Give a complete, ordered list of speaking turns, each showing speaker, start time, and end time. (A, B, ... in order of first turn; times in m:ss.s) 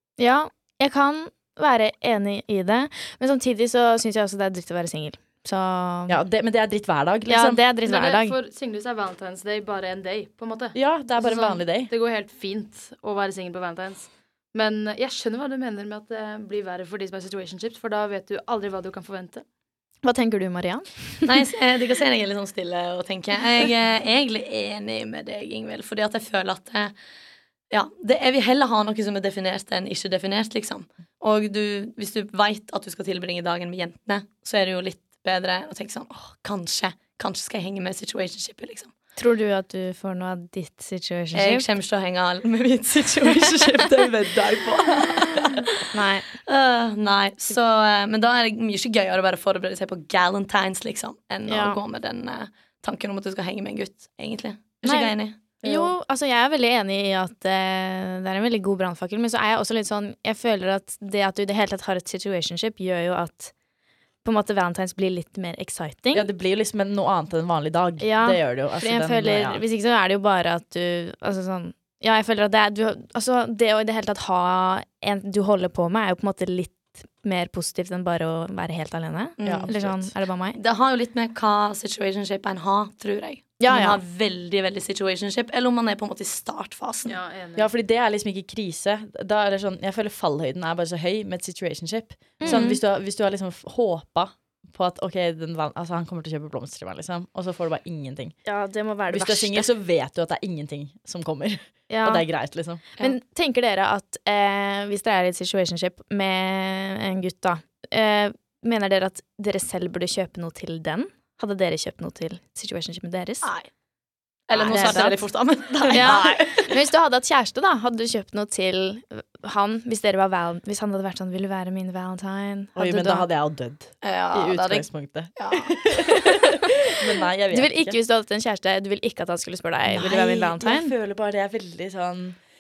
0:00.2-0:06.2 A
0:06.1-0:07.6 B
0:07.3-0:08.4 A
0:07.8-0:19.4 C
0:10.8-0:11.9 B
0:20.0-0:21.5 A
0:21.3-0:26.9 D
0:27.7-0:38.9 D
0:39.2-0:41.7 A
0:41.3-0:45.8 D
0:43.8-0:44.1 B
0:44.9-0:45.3 B
0:45.9-0:46.3 A
0:46.5-0:55.4 D
0:51.5-0:51.8 A
0:54.8-1:03.5 A
0:55.6-0:55.9 B
1:04.2-1:06.3 A
1:06.1-1:09.6 B
1:08.0-1:20.6 A
1:19.4-1:19.8 D
1:19.4-1:20.1 B
1:20.6-1:27.2 D
1:23.6-1:24.0 A
1:27.1-1:27.7 C
1:27.6-1:38.4 B
1:32.4-1:32.8 A
1:38.5-1:39.7 A
1:39.1-1:42.8 B
1:41.9-1:42.3 A
1:43.0-1:53.5 A
1:53.4-1:53.7 D
1:54.5-1:56.7 D
1:54.5-1:55.2 A
1:55.8-2:03.3 A
2:02.8-2:08.0 B
2:04.0-2:04.8 D
2:05.4-2:05.7 D
2:06.3-2:06.7 A
2:07.5-2:10.9 A
2:09.9-2:12.4 B